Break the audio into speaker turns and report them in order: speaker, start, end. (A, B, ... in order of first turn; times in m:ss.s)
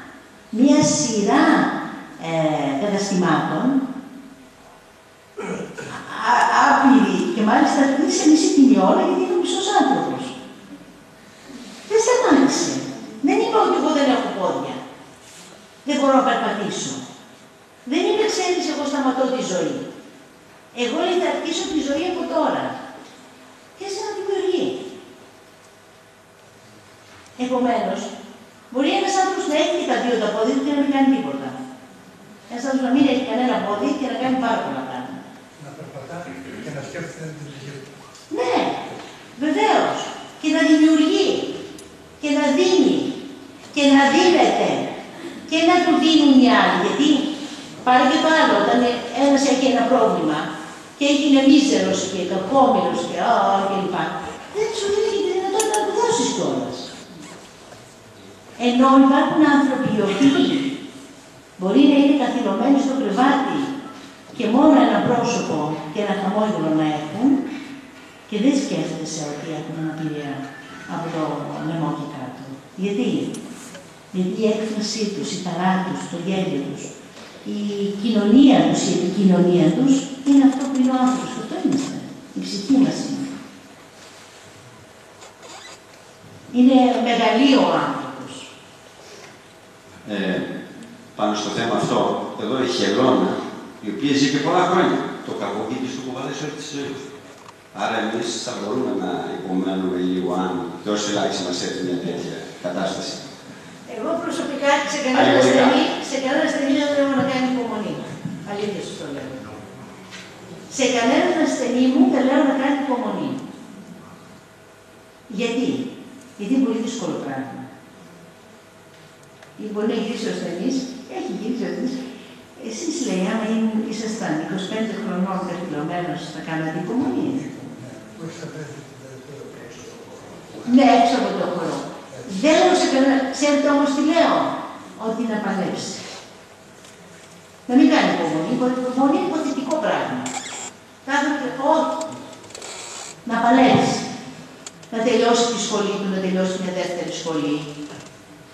0:00.5-0:03.8 A
0:05.9-0:10.4 A
0:11.9-0:14.8 A
0:15.8-0:17.0 A
0:17.9-0:19.9 A
0:20.7-0:22.8 A
0:23.8-0:24.8 A
0:27.4-0:28.1 A
0:28.7-0:31.6 A
0:32.5-0:35.2 A
0:35.6-0:37.9 B
0:38.3-0:38.8 A
0:39.4-0:41.5 A
0:42.2-0:43.2 A
0:43.7-0:44.9 A
0:45.5-0:47.3 A
0:47.8-0:56.9 A
0:58.6-1:00.8 A
1:01.6-1:03.8 A
1:04.3-1:07.5 A
1:08.3-1:13.4 A
1:14.1-1:16.9 A
1:17.4-1:23.4 A
1:26.5-1:28.5 A
1:30.0-1:30.5 C
1:31.2-1:37.0 C
1:37.7-1:43.3 C
1:43.9-1:49.5 A
1:45.1-1:45.8 C
1:50.7-1:53.4 A
1:55.3-1:57.7 A
1:59.6-2:02.0 A
2:02.6-2:07.4 A
2:07.3-2:10.4 B
2:10.6-2:16.0 A
2:17.7-2:20.3 A
2:21.0-2:22.0 A
2:23.2-2:24.1 A
2:24.9-2:27.7 A